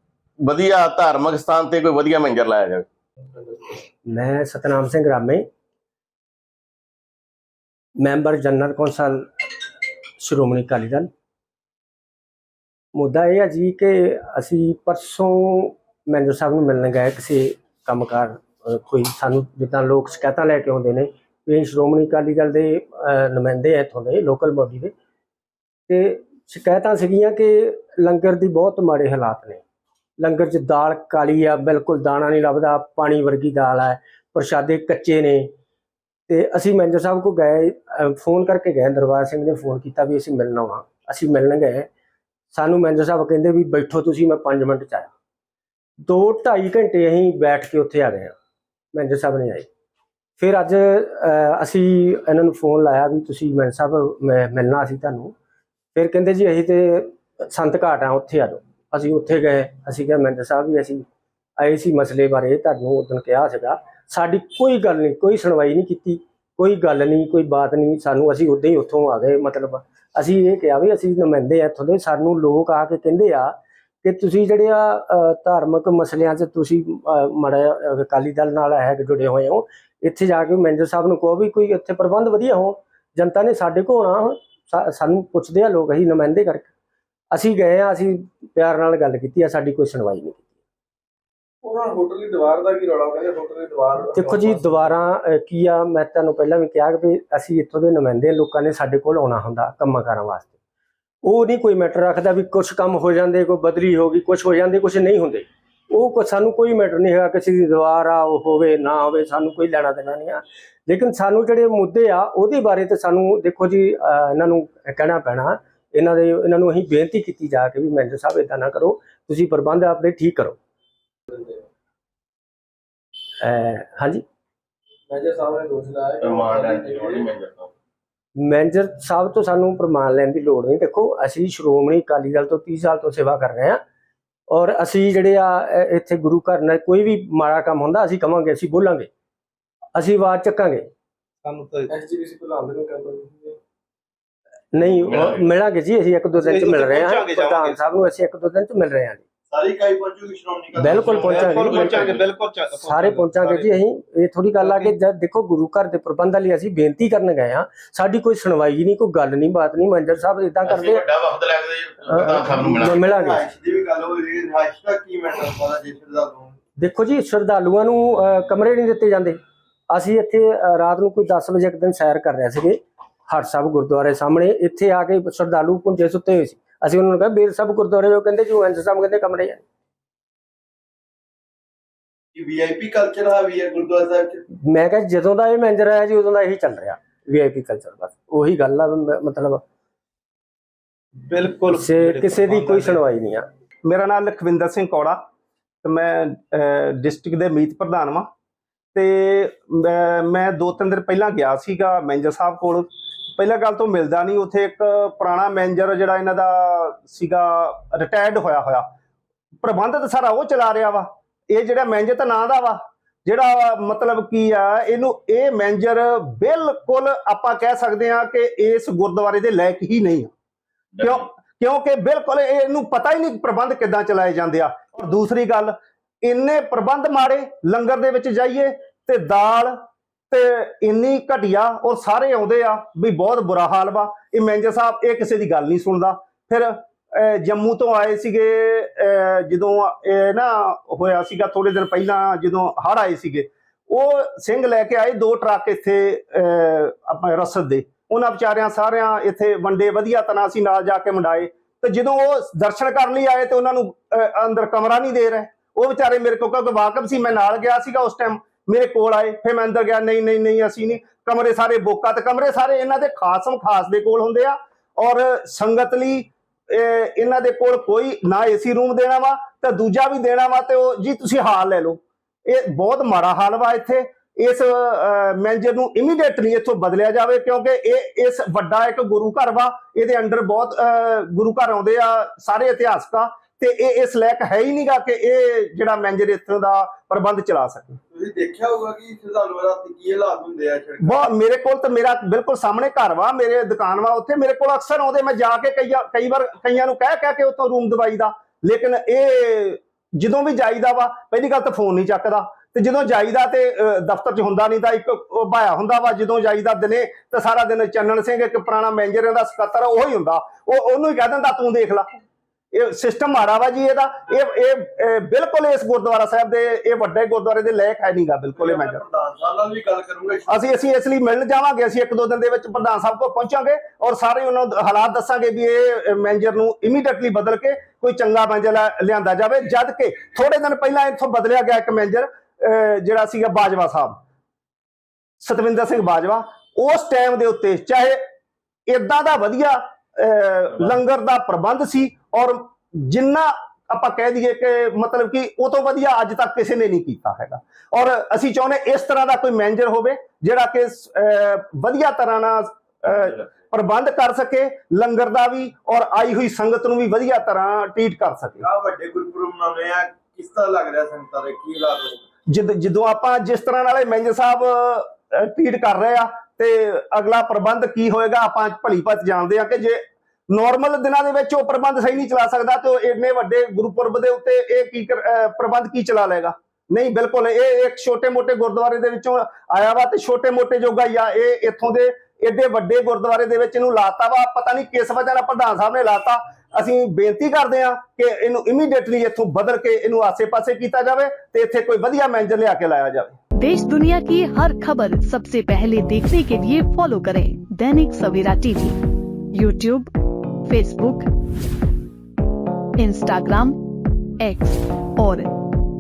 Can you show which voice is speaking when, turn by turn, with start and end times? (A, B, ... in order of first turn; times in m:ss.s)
0:00.4-0:02.9 A
0:04.0-0:05.5 B
0:08.0-0:09.5 B
0:10.2-0:11.1 B
0:12.9-0:24.9 B
0:25.9-0:29.6 B
0:30.2-0:35.5 B
0:36.3-0:41.9 B
0:42.5-0:45.1 B
0:46.0-0:48.4 B
0:48.9-0:49.7 B
0:50.4-0:55.3 B
0:56.0-1:01.0 B
1:01.6-1:26.7 B
1:27.3-1:30.4 B
1:31.6-1:35.0 C
1:34.1-1:40.5 B
1:41.2-2:00.6 B
2:01.3-2:01.6 C
2:03.4-2:04.2 B
2:05.1-2:07.3 C
2:06.2-2:07.7 A
2:08.4-2:13.8 B
2:14.5-2:19.1 B
2:20.0-2:20.9 B
2:21.4-2:21.9 D
2:21.9-2:23.6 C
2:24.7-2:29.2 B
2:25.1-2:25.4 A
2:26.4-2:27.9 D
2:29.5-2:32.4 D
2:30.8-2:32.2 B
2:32.7-2:41.1 B
2:33.3-2:33.6 D
2:40.6-2:43.0 A
2:42.1-2:43.5 B
2:42.6-2:46.6 D
2:46.8-2:49.4 B
2:49.9-2:59.6 B
3:02.4-3:04.4 D
3:04.5-3:09.6 B
3:11.3-3:13.0 D
3:11.7-3:13.5 B
3:13.8-3:15.2 E
3:15.8-3:18.3 E
3:19.0-3:28.9 E
3:29.6-3:40.3 E
3:41.0-3:49.8 E
3:50.3-4:48.0 E
4:48.1-4:51.2 D
4:51.0-5:12.1 E
5:12.7-5:19.0 E
5:18.6-5:20.6 D
5:20.5-5:34.2 E
5:35.4-5:38.2 E
5:38.9-5:58.6 E
5:58.6-6:02.2 D
6:02.5-6:33.4 E
6:33.6-6:39.0 F
6:39.5-6:40.1 F
6:40.7-6:41.3 F
6:43.0-6:43.8 F
6:44.4-6:45.5 F